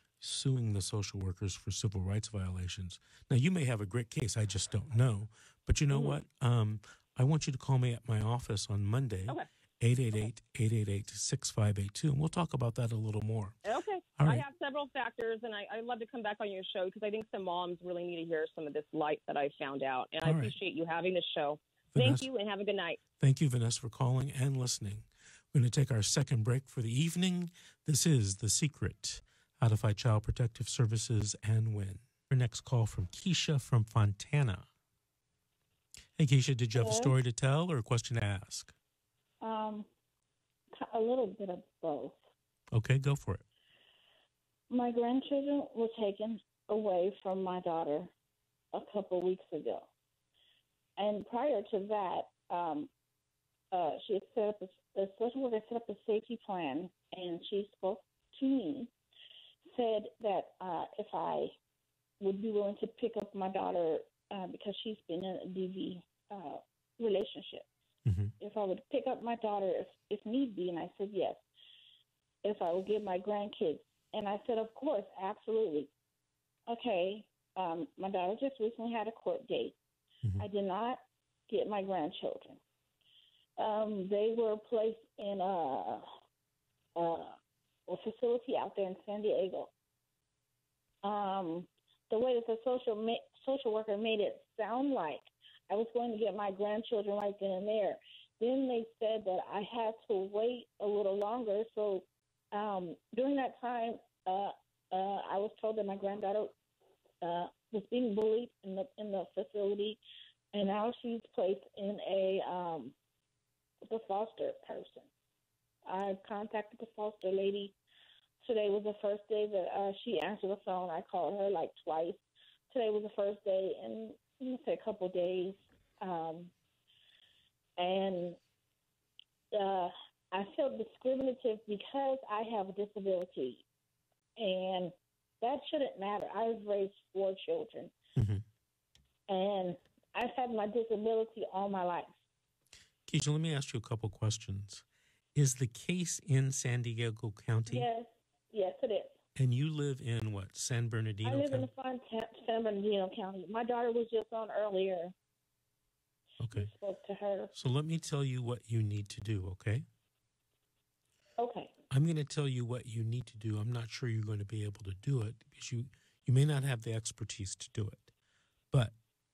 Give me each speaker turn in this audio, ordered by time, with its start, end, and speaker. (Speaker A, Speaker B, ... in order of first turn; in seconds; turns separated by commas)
Speaker A: 0.2-13.6, Speaker B: 5.9-6.2, Speaker B: 13.6-23.0, Speaker A: 14.2-14.4, Speaker A: 20.2-20.5, Speaker A: 21.9-22.3, Speaker A: 23.2-34.7, Speaker A: 36.2-38.7, Speaker C: 36.7-37.1, Speaker C: 39.4-39.9, Speaker C: 40.8-42.2, Speaker A: 42.7-43.4, Speaker C: 44.7-48.1, Speaker C: 48.7-49.9, Speaker C: 51.0-52.9, Speaker C: 53.7-58.9, Speaker C: 59.6-61.5, Speaker C: 62.2-67.7, Speaker A: 68.0-68.3, Speaker C: 68.4-71.4, Speaker C: 72.4-75.9, Speaker C: 76.7-79.8, Speaker C: 80.4-82.6, Speaker C: 83.6-86.0, Speaker C: 87.0-89.7, Speaker C: 91.0-106.5, Speaker C: 107.2-110.0, Speaker C: 110.5-112.9, Speaker C: 113.8-115.1, Speaker C: 115.9-117.7, Speaker C: 118.4-126.5, Speaker C: 127.8-128.4, Speaker C: 129.5-133.6, Speaker C: 134.4-137.9, Speaker A: 138.2-138.4, Speaker C: 139.3-142.1, Speaker A: 143.1-147.9, Speaker C: 147.7-149.2, Speaker A: 149.3-151.7, Speaker C: 151.2-155.1, Speaker A: 156.4-156.7, Speaker C: 156.5-157.5, Speaker A: 157.5-159.8, Speaker C: 161.4-161.7, Speaker A: 161.9-168.1